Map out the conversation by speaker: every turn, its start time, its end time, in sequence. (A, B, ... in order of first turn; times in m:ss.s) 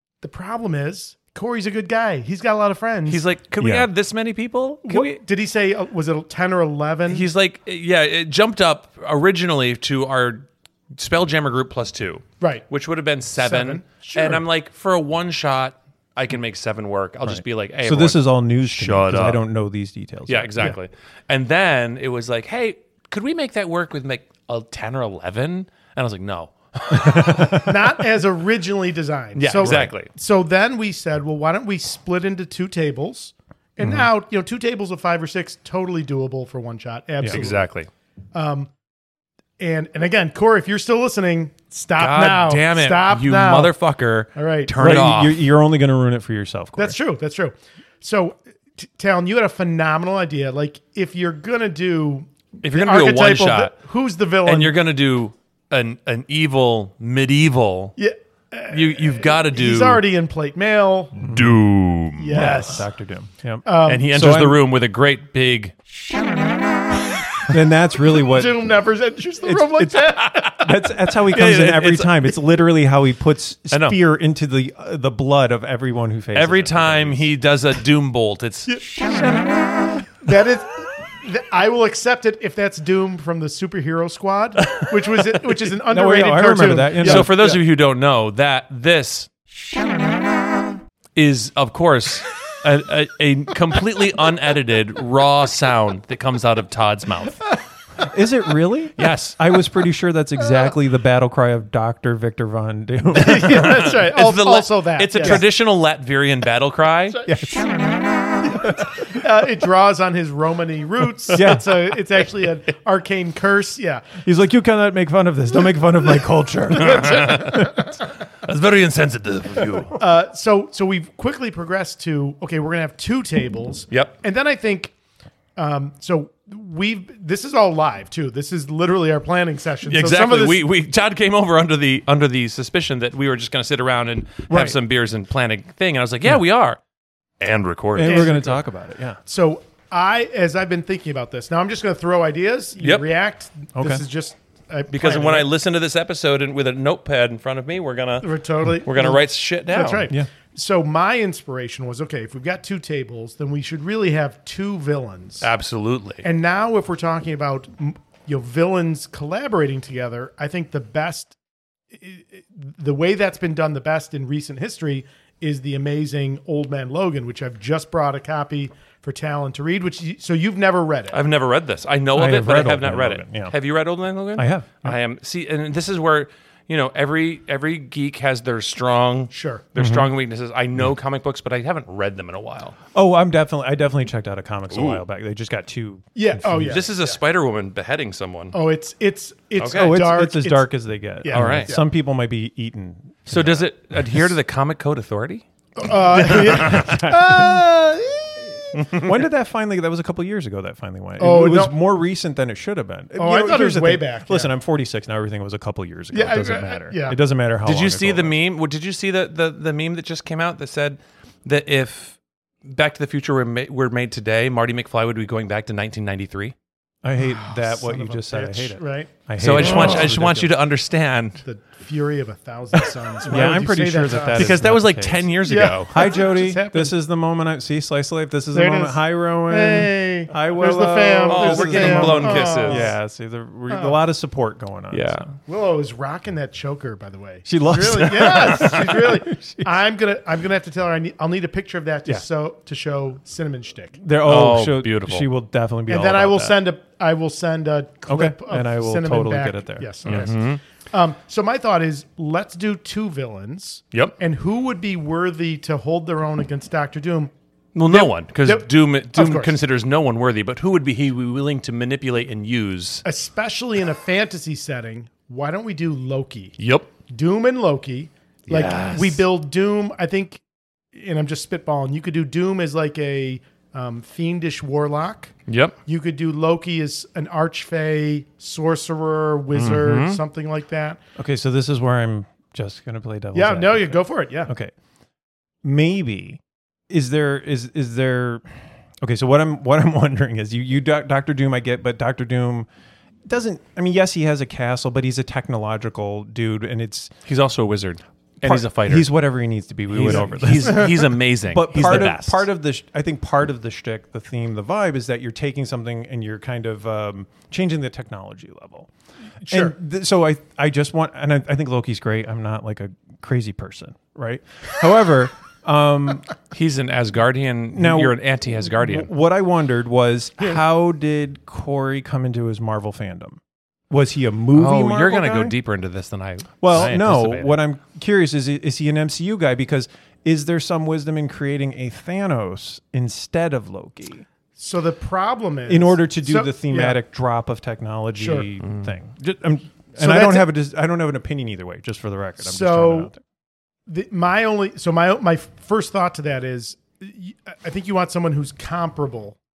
0:00.2-0:03.2 A
0:03.1-0:05.2 B
0:03.6-0:03.9 C
0:04.8-0:07.2 A
0:07.1-0:19.4 B
0:13.4-0:14.4 A
0:17.3-0:20.7 C
0:20.3-0:27.7 B
0:26.9-0:27.8 C
0:27.5-0:37.7 A
0:29.4-0:30.1 B
0:29.6-0:29.9 C
0:33.8-0:34.1 C
0:37.3-0:37.9 B
0:38.3-0:38.7 A
0:39.6-0:43.7 A
0:42.0-0:45.4 B
0:44.3-0:44.7 A
0:44.8-0:47.0 C
0:46.8-0:54.8 A
0:52.6-0:53.8 B
0:54.4-0:57.9 B
0:58.0-1:01.3 A
0:58.7-1:00.0 B
1:01.2-1:01.6 C
1:01.3-1:02.7 B
1:02.2-1:02.9 A
1:02.3-1:04.6 C
1:03.6-1:04.1 A
1:03.8-1:05.7 B
1:07.5-1:08.7 C
1:08.2-1:10.6 A
1:09.4-1:17.2 C
1:10.0-1:12.4 B
1:13.7-1:14.0 B
1:16.3-1:19.0 B
1:18.8-1:19.4 A
1:20.2-1:27.5 A
1:25.7-1:27.6 C
1:27.0-1:29.3 B
1:31.1-1:37.5 B
1:38.0-1:43.8 C
1:39.0-1:39.6 B
1:43.1-1:45.4 A
1:43.4-1:47.2 B
1:45.2-1:45.5 C
1:47.1-1:54.1 A
1:47.2-1:47.9 C
1:51.3-1:51.8 C
1:54.2-1:57.8 C
1:56.7-1:57.8 A
1:56.8-1:59.9 B
1:59.9-2:04.9 A
2:05.6-2:10.6 A
2:09.9-2:16.8 B
2:17.4-2:18.4 B
2:18.0-2:19.2 C
2:18.0-2:18.6 A
2:19.2-2:25.5 A
2:22.8-2:23.0 B
2:23.8-2:24.0 C
2:24.9-2:30.1 B
2:28.2-2:35.5 A
2:35.4-2:36.2 B
2:36.2-2:41.3 A
2:41.9-2:51.2 A
2:51.1-3:02.8 B
2:52.1-2:53.5 C
2:54.4-2:55.0 C
2:59.3-2:59.6 A
2:59.8-3:00.1 C
3:02.9-3:06.8 C
3:04.7-3:05.0 B
3:06.1-3:07.1 A
3:06.5-3:08.5 B
3:08.5-3:11.8 A
3:09.6-3:09.9 B
3:09.6-3:14.3 C
3:11.3-3:11.7 B
3:13.3-3:15.4 B
3:15.8-3:18.9 A
3:16.1-3:17.7 C
3:16.2-3:16.9 B
3:18.7-3:28.4 C
3:18.7-3:19.2 B
3:21.2-3:21.8 A
3:23.1-3:24.5 A
3:26.1-3:27.2 A
3:27.6-3:36.5 B
3:37.0-3:40.5 C
3:37.2-3:40.1 A
3:39.4-3:41.4 B
3:41.4-3:44.6 A
3:43.2-3:55.3 C
3:44.3-3:46.2 B
3:45.4-3:46.9 A
3:48.5-3:52.9 A
3:51.3-3:52.9 B
3:53.7-3:54.0 A
3:54.9-3:55.3 B
3:55.5-4:04.0 A
3:57.4-3:59.7 C
3:58.1-3:59.0 B
4:04.0-4:06.6 C
4:04.2-4:05.3 B
4:05.9-4:17.3 A
4:08.1-4:10.3 C
4:10.0-4:10.6 B
4:17.7-4:23.0 B
4:17.9-4:19.5 A
4:23.0-4:26.5 A
4:26.6-4:26.9 B
4:27.1-4:30.4 A
4:28.5-4:29.2 B
4:30.9-4:35.3 A
4:35.5-4:35.7 B
4:35.8-4:41.0 A
4:39.5-4:40.2 B
4:41.2-4:44.7 C
4:43.3-4:44.5 A
4:45.6-4:52.7 C
4:53.2-4:57.1 C
4:57.2-4:59.1 B
4:58.4-5:08.9 C
4:59.9-5:02.4 B
5:09.4-5:09.7 A
5:09.4-5:16.3 C
5:16.5-5:19.1 B
5:17.7-5:25.5 C
5:24.5-5:27.6 B
5:26.6-5:34.2 C
5:34.6-5:37.0 A
5:35.7-5:43.2 C
5:38.2-5:38.5 A
5:38.6-5:38.9 B
5:40.0-5:40.5 A
5:42.4-5:43.1 A
5:43.9-5:49.4 A